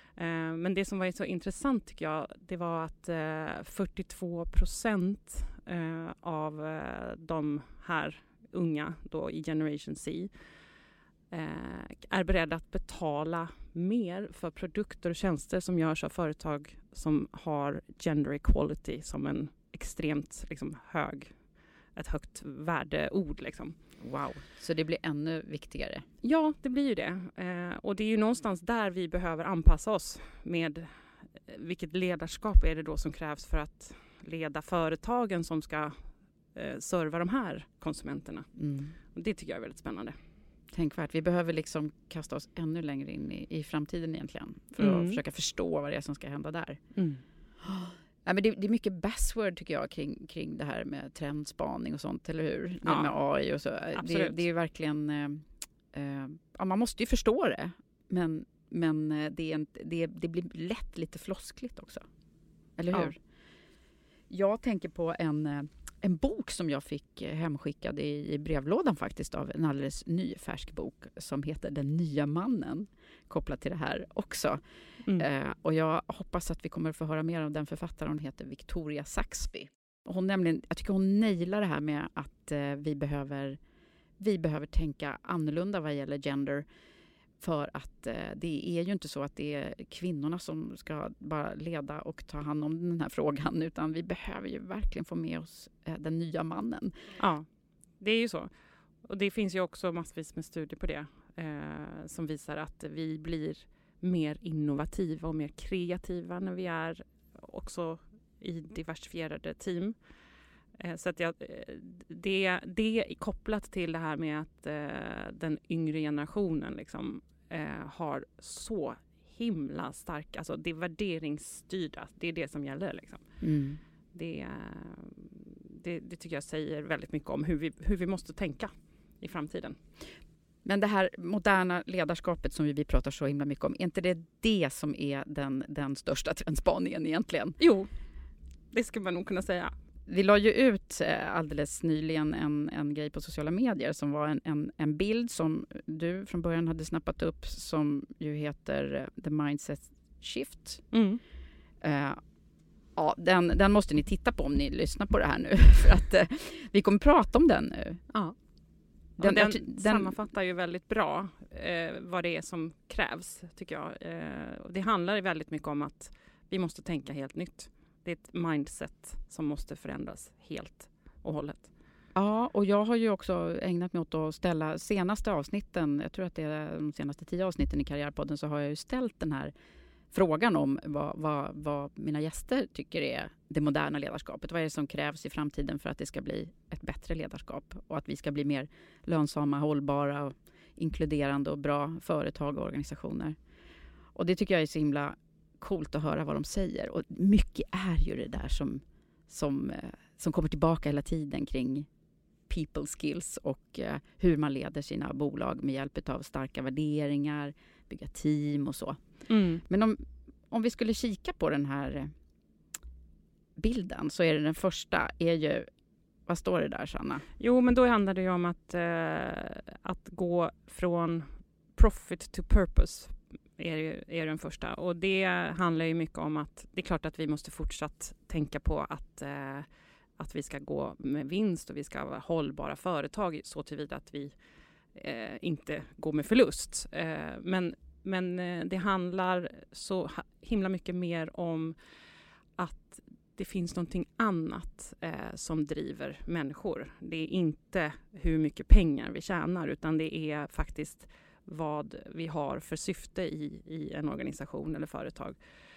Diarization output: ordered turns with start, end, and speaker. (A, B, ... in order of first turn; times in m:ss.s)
0:00.2-0:10.3 A
0:11.3-0:21.3 A
0:22.0-0:23.8 A
0:24.0-0:26.0 B
0:26.2-0:30.9 A
0:31.4-0:36.0 A
0:36.5-0:38.5 A
0:38.6-0:39.0 B
0:39.1-0:40.2 A
0:40.7-0:46.8 B
0:44.8-0:45.2 A
0:47.0-0:47.2 A
0:47.6-1:02.0 B
0:52.8-0:53.1 A
0:54.0-0:54.4 A
1:02.8-1:03.2 B
1:04.3-1:14.6 B
1:15.2-1:23.6 B
1:24.2-1:26.7 B
1:27.4-1:37.0 B
1:37.2-1:37.5 A
1:38.0-1:38.5 A
1:39.0-1:50.0 A
1:50.8-2:03.2 A
2:03.4-2:03.8 B
2:04.1-2:09.8 A
2:10.6-2:17.6 B
2:17.6-2:17.9 A
2:18.7-2:19.7 A
2:20.1-2:30.8 B
2:30.9-2:31.2 A
2:31.8-2:32.2 B
2:33.0-2:38.0 B
2:39.2-2:51.7 A
2:39.2-2:40.2 B
2:52.2-2:59.5 B
3:00.1-3:13.4 B
3:14.2-3:21.9 B
3:22.5-3:29.0 B
3:29.3-3:29.6 A
3:29.7-3:32.1 B
3:33.6-3:35.7 B
3:36.3-3:37.2 B
3:37.4-3:54.3 A
3:55.0-4:01.8 A
4:02.6-4:15.4 A